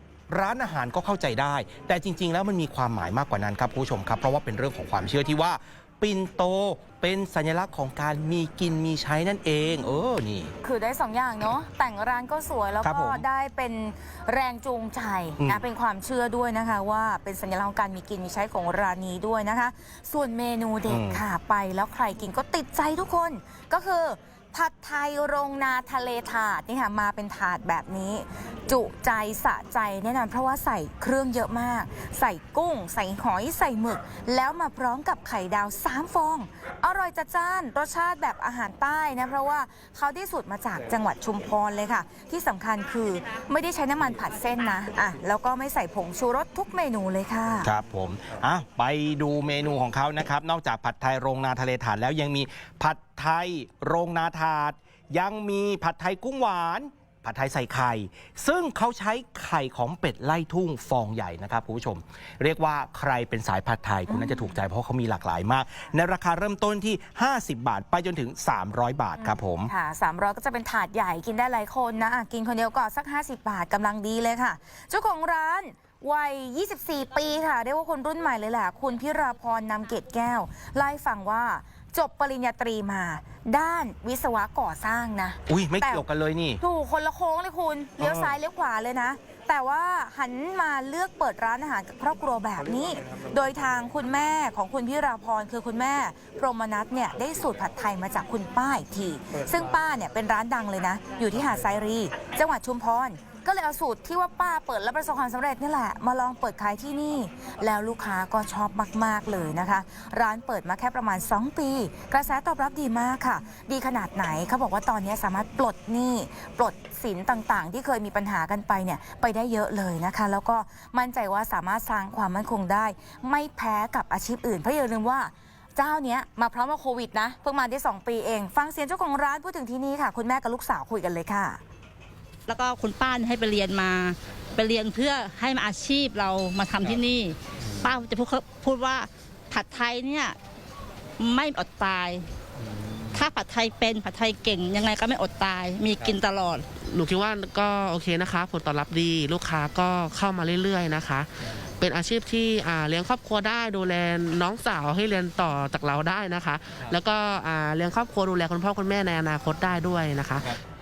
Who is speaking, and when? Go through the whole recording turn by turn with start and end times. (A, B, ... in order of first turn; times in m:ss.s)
0:00.3-0:10.5 A
0:10.6-0:47.7 B
0:12.8-0:13.2 A
0:20.9-0:21.2 A
0:47.6-1:09.7 A
1:04.1-1:04.4 B
1:09.2-1:26.0 B
1:25.5-1:26.6 A
1:26.6-2:11.6 B
1:28.0-1:28.3 A
2:12.5-2:20.4 C
2:21.2-2:22.3 C
2:23.1-2:26.6 C
2:26.8-2:40.6 D